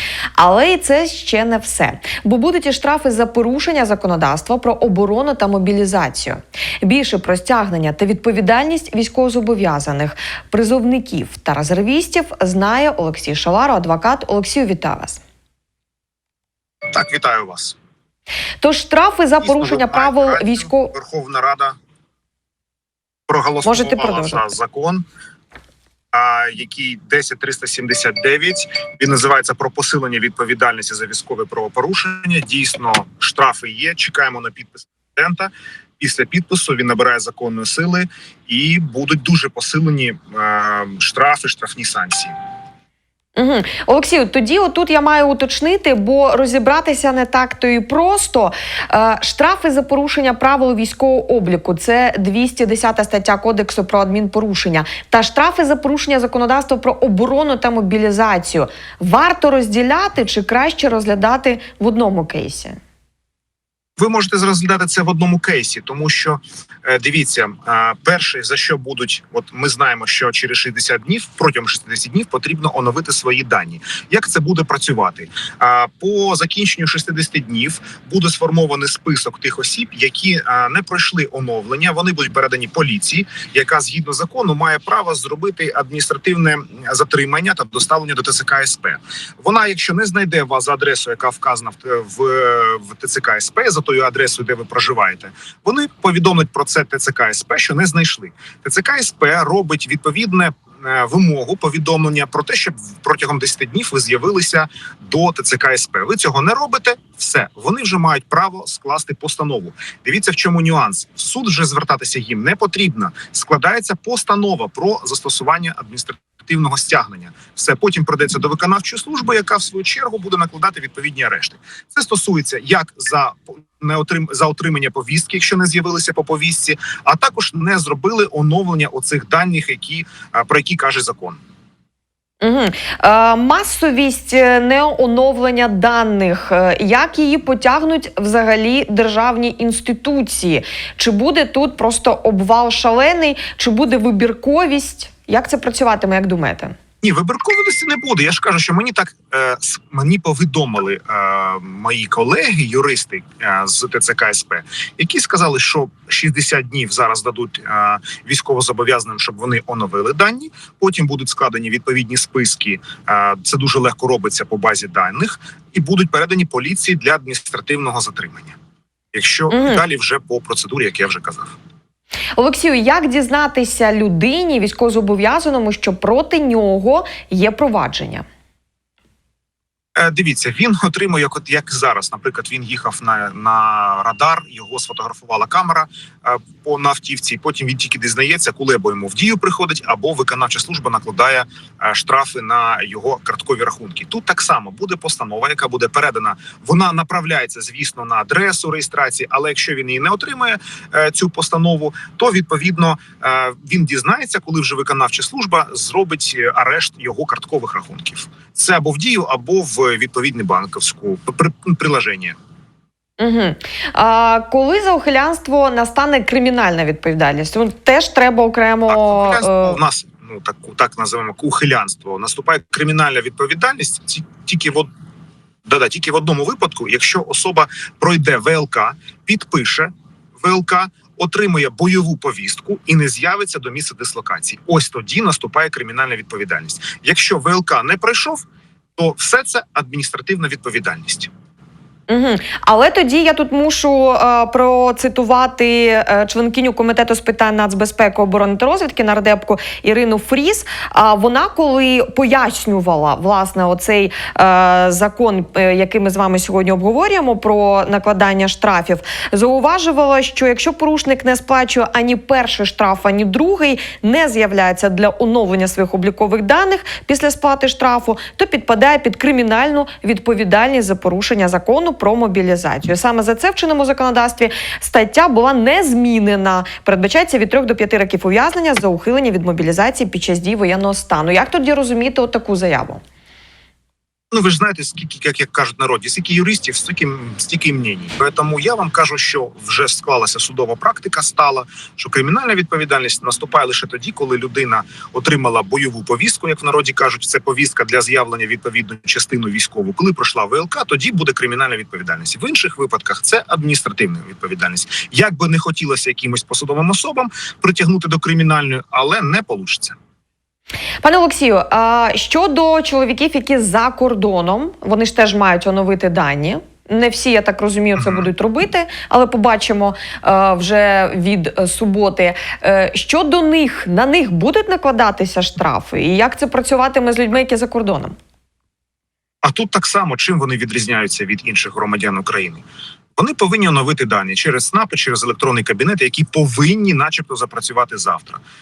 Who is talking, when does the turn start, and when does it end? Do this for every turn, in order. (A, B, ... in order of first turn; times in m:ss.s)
0:00.4-0:15.2 A
0:16.9-0:17.8 B
0:18.6-0:20.9 A
0:19.4-0:21.8 B
0:23.3-0:25.0 B
0:23.6-0:24.4 A
0:26.1-0:42.3 B
0:43.4-1:02.8 A
1:04.0-2:11.4 B
2:12.4-2:26.8 A
2:27.0-2:48.6 B
2:49.1-2:51.6 B
2:49.5-2:49.8 A
2:52.4-2:58.2 A
3:00.0-3:32.4 B
3:33.2-3:39.8 A
3:38.9-3:44.9 B
3:45.6-3:58.4 B
3:59.0-4:01.3 B
4:02.1-4:43.0 A
4:44.3-5:10.0 B
5:11.0-5:28.2 A
5:18.0-5:18.3 B
5:29.4-5:32.6 B
5:33.2-5:38.4 B